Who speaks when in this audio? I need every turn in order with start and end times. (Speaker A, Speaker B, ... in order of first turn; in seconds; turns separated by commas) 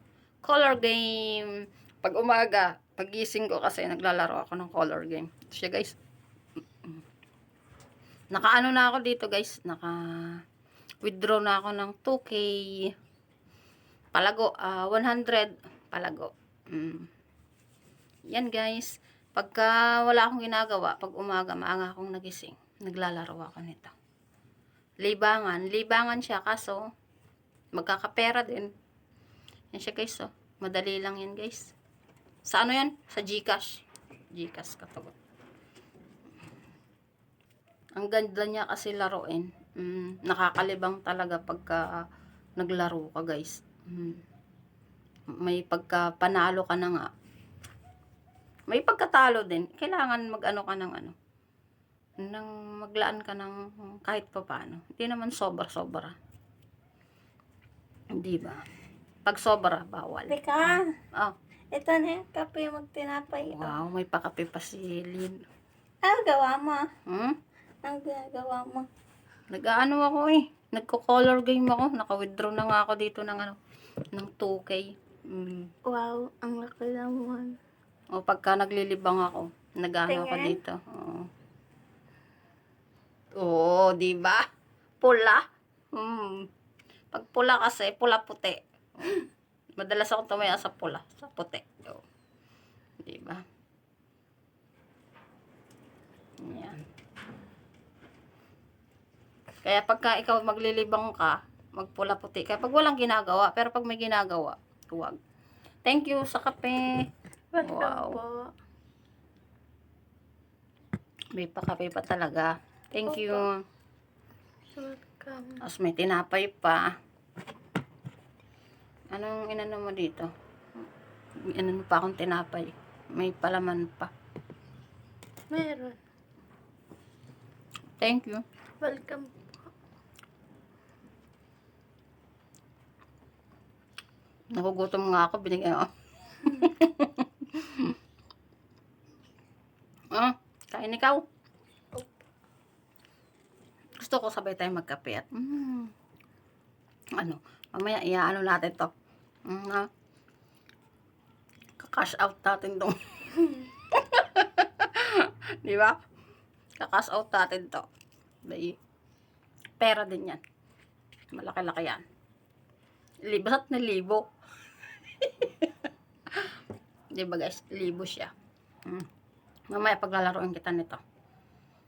Speaker A: 0.4-6.0, Speaker A: 8.3-10.4, Speaker A: 11.0-12.9, Speaker A: 14.1-17.1, Speaker A: 18.3-23.9, Speaker A: 25.0-26.8, Speaker A: 27.7-28.7, Speaker A: 29.7-31.7, Speaker A: 32.5-35.2, Speaker A: 38.0-41.9, Speaker A: 42.6-44.2, Speaker A: 45.3-47.1, Speaker A: 48.7-51.1, Speaker A: 52.2-56.1, Speaker A: 58.2-58.6, Speaker A: 59.3-61.3, Speaker B: 60.3-60.9, Speaker B: 61.7-63.7, Speaker A: 63.4-65.4, Speaker B: 66.0-66.9, Speaker A: 67.1-67.3, Speaker B: 67.8-68.9, Speaker A: 69.5-73.6, Speaker A: 74.1-75.7, Speaker B: 75.9-77.5, Speaker A: 78.1-81.3, Speaker B: 80.1-80.6, Speaker A: 83.4-84.5, Speaker A: 85.0-85.4, Speaker A: 85.9-86.5, Speaker A: 87.1-89.2, Speaker A: 89.8-92.0, Speaker A: 93.0-93.4, Speaker A: 96.4-96.8, Speaker A: 99.6-105.2, Speaker A: 105.9-107.0, Speaker B: 107.5-108.5, Speaker A: 107.6-108.2, Speaker A: 111.3-113.6, Speaker B: 113.1-113.5, Speaker B: 114.8-115.6, Speaker A: 115.6-116.9, Speaker A: 119.1-120.3, Speaker A: 121.5-124.1, Speaker B: 125.5-126.0, Speaker A: 128.0-128.4, Speaker B: 128.8-129.5, Speaker A: 134.5-137.9, Speaker A: 140.1-141.2, Speaker B: 141.9-142.2, Speaker A: 144.0-145.9, Speaker A: 147.2-148.9, Speaker A: 149.5-149.9, Speaker A: 151.8-156.0, Speaker A: 156.8-157.8, Speaker A: 158.5-158.8, Speaker A: 159.8-160.4, Speaker A: 161.3-162.0, Speaker A: 163.3-164.2, Speaker A: 165.2-165.7, Speaker A: 167.1-168.3, Speaker A: 169.7-171.0